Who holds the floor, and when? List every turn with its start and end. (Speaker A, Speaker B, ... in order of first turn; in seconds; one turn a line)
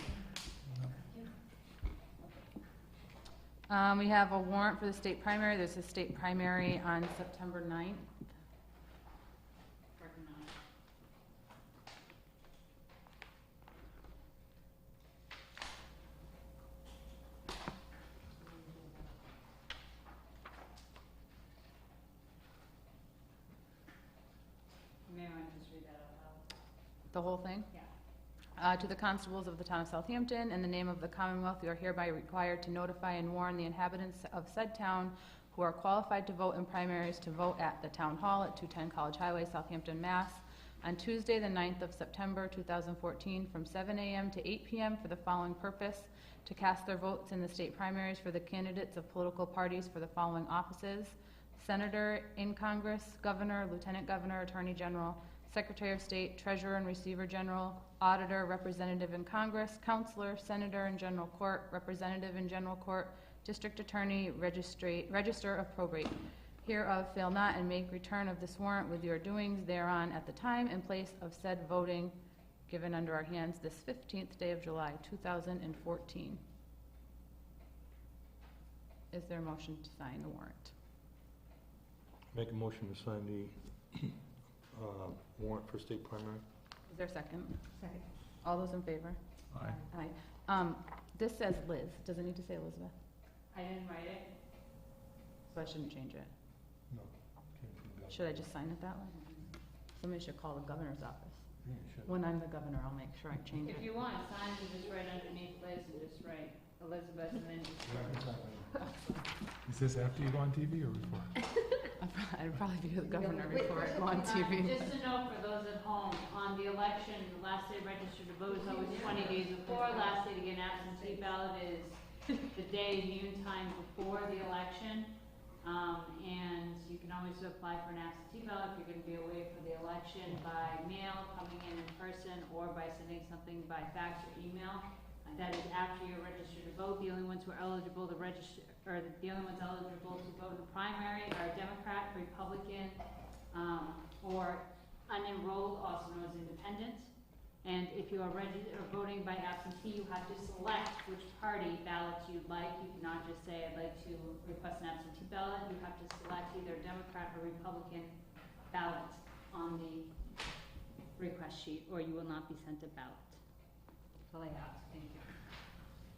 Speaker A: 3.7-8.1
Speaker B: 10.0-10.5
Speaker B: 18.4-19.1
Speaker B: 25.1-26.4
Speaker A: 27.1-27.7
Speaker A: 28.6-72.1
Speaker A: 72.7-76.4
Speaker A: 79.1-80.7
Speaker C: 82.3-84.2
Speaker C: 84.7-86.4
Speaker A: 86.9-87.7
Speaker D: 87.7-88.0
Speaker A: 88.4-89.2
Speaker E: 89.5-89.8
Speaker A: 89.9-92.9
Speaker B: 93.5-94.3
Speaker A: 95.5-96.3
Speaker C: 96.9-98.4
Speaker A: 98.1-99.3
Speaker A: 99.9-101.5
Speaker C: 101.6-102.1
Speaker A: 102.0-103.9
Speaker B: 103.6-108.2
Speaker C: 107.8-108.8
Speaker E: 109.6-111.4
Speaker A: 111.8-115.0
Speaker D: 113.1-114.4
Speaker B: 113.5-143.0
Speaker D: 118.6-120.2
Speaker B: 143.5-147.1
Speaker B: 147.6-158.1
Speaker B: 158.7-160.1
Speaker B: 161.2-163.4
Speaker B: 164.3-165.3